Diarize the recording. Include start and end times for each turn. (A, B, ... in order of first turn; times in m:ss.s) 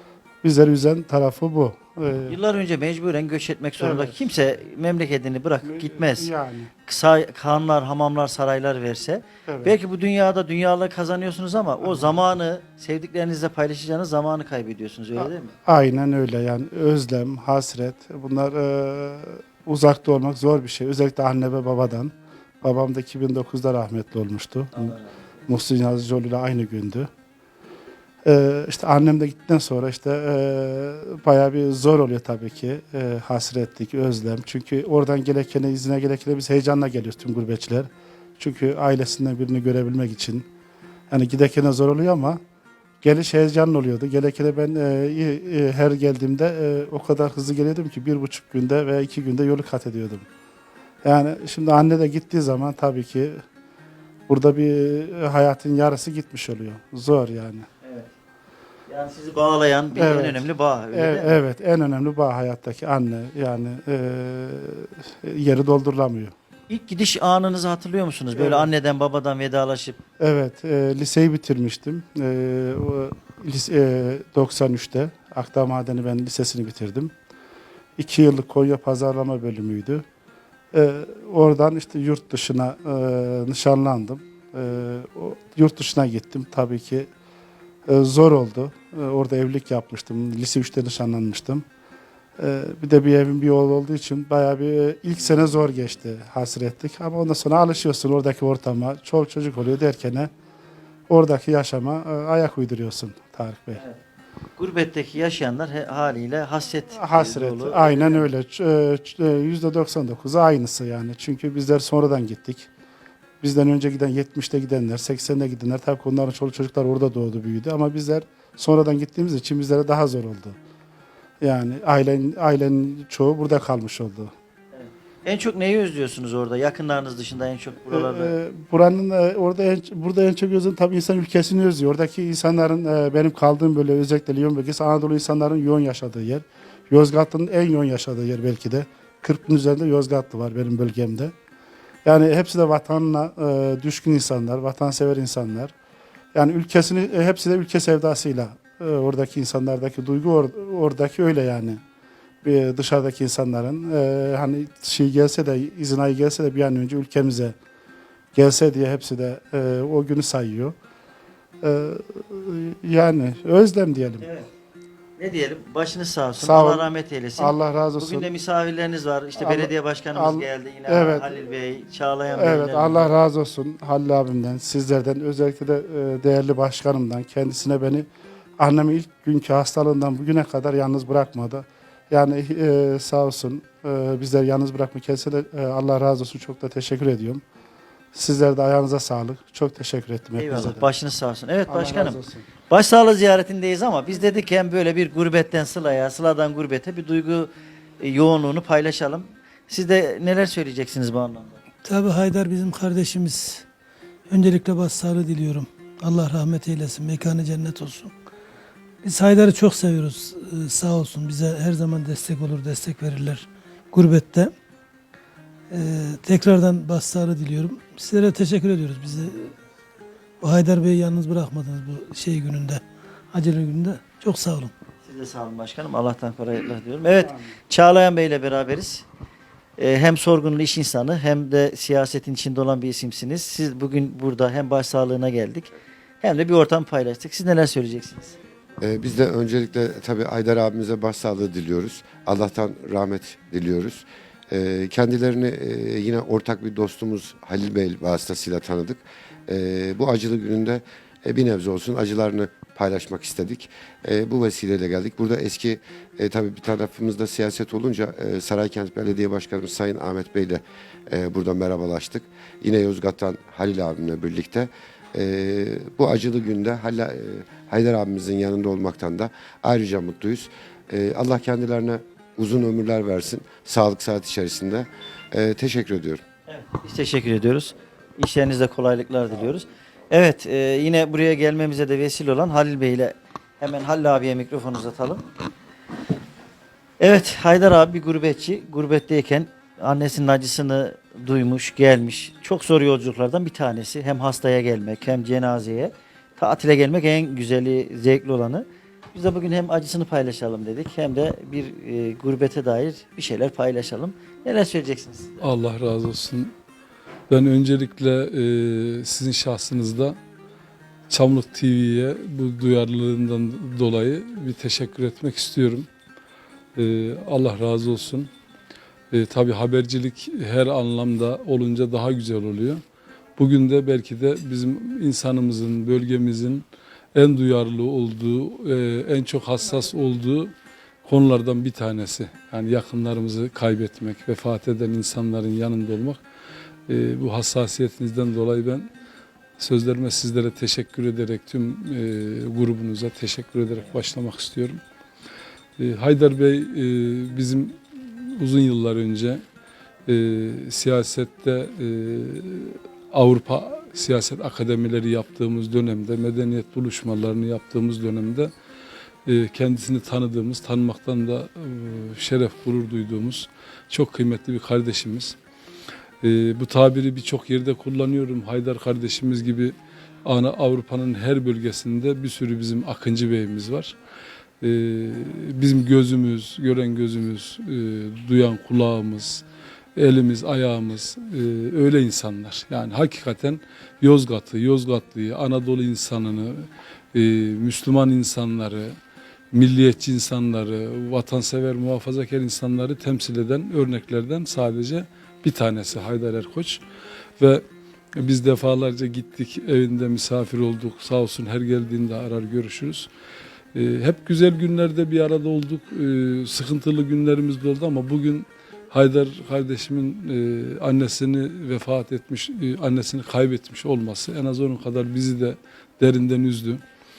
0:00.4-0:02.4 A
0:02.3-0:06.3 B
0:03.8-0:04.2 A
0:05.6-0:06.7 A
0:06.8-0:15.5 B
0:09.5-0:09.7 A
0:11.8-0:12.2 A
0:15.2-0:24.9 A
0:24.7-0:25.0 B
0:25.5-0:27.1 A
0:28.2-0:40.5 A
0:41.1-0:42.4 A
0:43.0-0:50.2 A
0:51.0-0:53.4 A
0:54.3-0:57.7 A
0:57.8-0:58.1 B
0:58.9-1:01.3 B
0:59.9-1:06.3 A
1:06.7-1:10.0 B
1:08.3-1:08.7 A
1:10.2-1:17.1 A
1:18.0-1:20.0 A
1:20.7-1:27.1 A
1:27.8-1:31.6 A
1:32.4-1:40.3 A
1:41.1-1:43.8 A
1:44.6-1:48.3 B
1:47.0-1:52.7 A
1:53.4-2:00.6 A
2:01.4-2:04.3 A
2:04.7-2:08.3 B
2:07.9-2:21.3 A
2:22.0-2:25.7 A
2:26.3-2:31.8 A
2:32.4-2:37.6 A
2:38.3-2:40.7 A
2:41.6-2:44.3 A
2:44.2-2:44.4 B
2:45.2-2:53.1 B
2:46.4-2:48.3 A
2:49.4-2:51.3 A
2:52.3-2:58.1 A
2:58.6-3:07.4 A
3:08.1-3:10.9 A
3:10.4-3:12.2 B
3:11.7-3:12.4 A
3:12.7-3:21.6 B
3:21.8-3:23.6 C
3:24.3-3:28.1 C
3:29.0-3:34.5 C
3:35.7-3:39.5 C
3:40.4-3:44.7 C
3:45.0-3:49.0 B
3:49.8-3:55.7 B
3:56.2-3:58.3 B
3:58.8-4:36.2 D
4:36.5-4:45.2 B
4:47.0-5:05.4 B
5:05.4-5:06.5 E
5:07.3-5:10.2 E
5:11.1-5:15.9 E
5:16.8-5:18.3 E
5:19.1-5:22.8 E
5:23.4-5:30.5 E
5:31.0-5:36.2 E
5:36.9-5:38.9 E
5:39.6-5:44.8 E
5:45.8-5:49.4 E
5:50.1-5:58.5 E
5:59.2-6:05.3 E
6:06.2-6:13.9 E
6:14.6-6:19.4 E
6:20.0-6:28.9 E
6:29.5-6:36.8 E
6:38.2-6:43.1 E
6:43.7-6:56.8 E